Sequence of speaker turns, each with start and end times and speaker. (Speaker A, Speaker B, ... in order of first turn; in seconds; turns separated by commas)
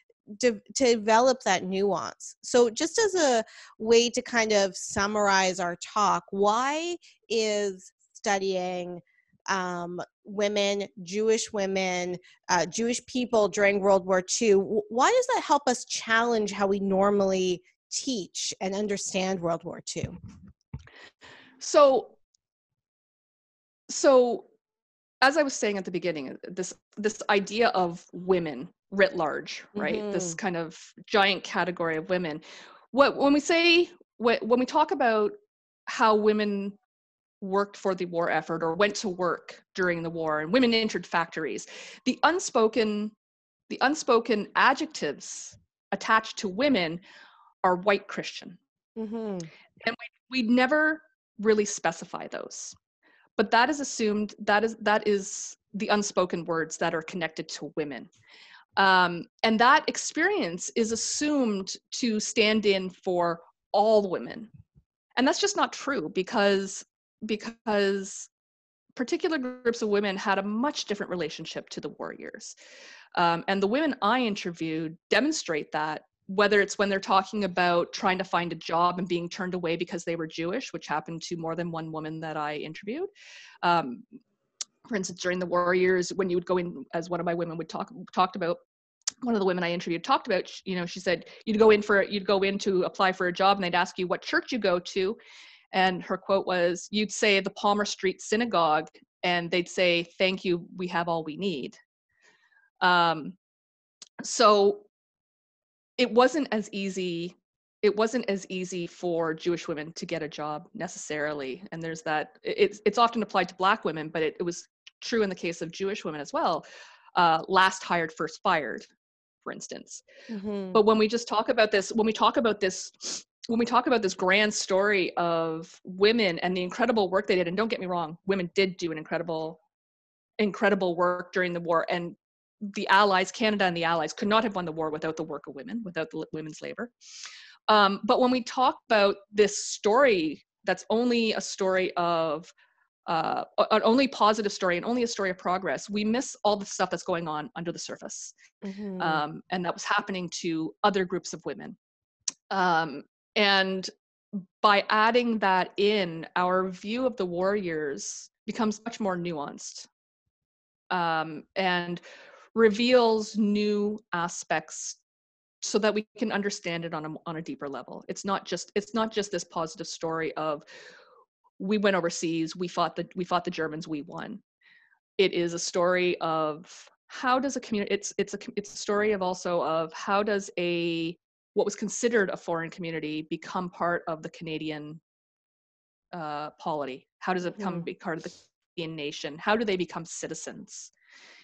Speaker A: 0.3-20.2, Speaker B: 21.6-22.1, Speaker B: 23.9-24.5, Speaker B: 25.2-35.3, Speaker A: 29.8-30.4, Speaker B: 35.9-36.8, Speaker B: 37.4-43.1, Speaker B: 43.7-47.0, Speaker B: 47.6-48.6, Speaker A: 49.0-49.5, Speaker B: 49.8-52.8, Speaker B: 53.4-58.1, Speaker B: 58.8-64.5, Speaker B: 65.2-68.3, Speaker B: 69.0-72.5, Speaker B: 73.1-83.1, Speaker B: 83.6-84.0, Speaker B: 84.9-88.6, Speaker B: 89.2-95.2, Speaker B: 95.7-101.8, Speaker B: 102.8-103.3, Speaker B: 104.2-104.8, Speaker B: 106.0-116.6, Speaker B: 117.1-118.9, Speaker B: 119.4-120.0, Speaker A: 120.3-120.8, Speaker B: 120.7-129.6, Speaker B: 130.4-136.9, Speaker B: 137.7-142.5, Speaker B: 143.1-148.3, Speaker A: 148.6-149.2, Speaker B: 149.0-151.8, Speaker B: 152.5-153.9, Speaker B: 154.6-159.9, Speaker B: 160.9-162.0, Speaker B: 162.5-165.0, Speaker B: 165.6-170.6, Speaker B: 171.6-174.4, Speaker B: 175.2-185.0, Speaker B: 186.1-190.9